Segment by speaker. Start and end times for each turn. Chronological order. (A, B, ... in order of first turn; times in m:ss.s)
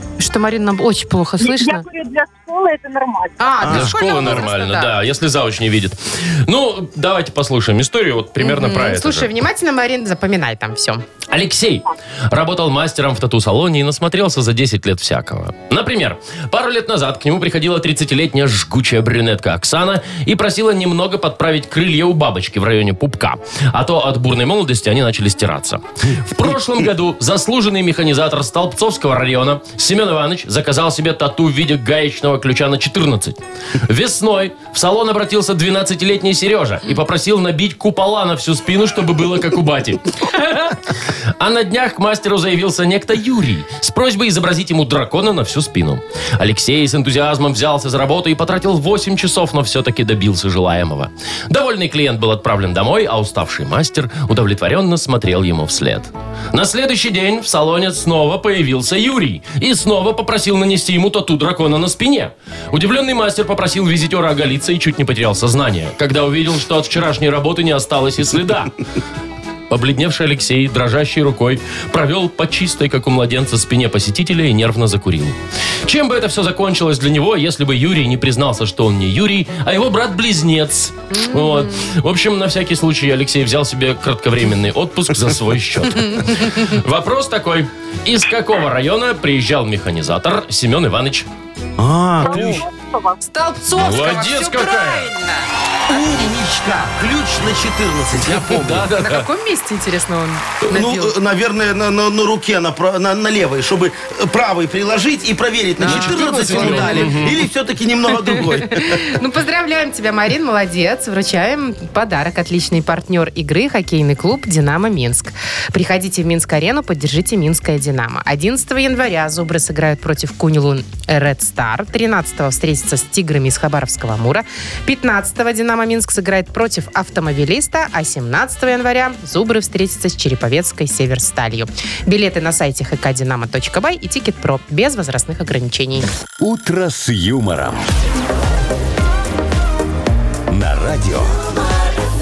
0:00.2-0:01.9 A
0:01.4-0:03.7 B
0:03.4-0:04.9 A
0:03.6-0:04.4 C
0:03.7-0:09.3 D
0:08.4-0:11.0 A
0:11.3-1:08.7 D
1:09.7-1:31.3 D
1:21.1-1:21.8 A
1:26.0-1:26.5 A
1:31.8-1:32.6 C
1:32.2-1:33.2 B
1:32.2-1:32.6 D
1:33.2-1:35.5 A
1:33.8-1:35.1 D
1:35.9-1:38.9 C
1:38.2-1:39.3 D
1:38.9-1:41.1 A
1:40.7-1:49.2 C
1:45.8-1:47.3 A
1:45.8-1:47.4 D
1:48.3-2:16.1 A
2:16.4-2:17.9 E
2:20.5-2:21.4 E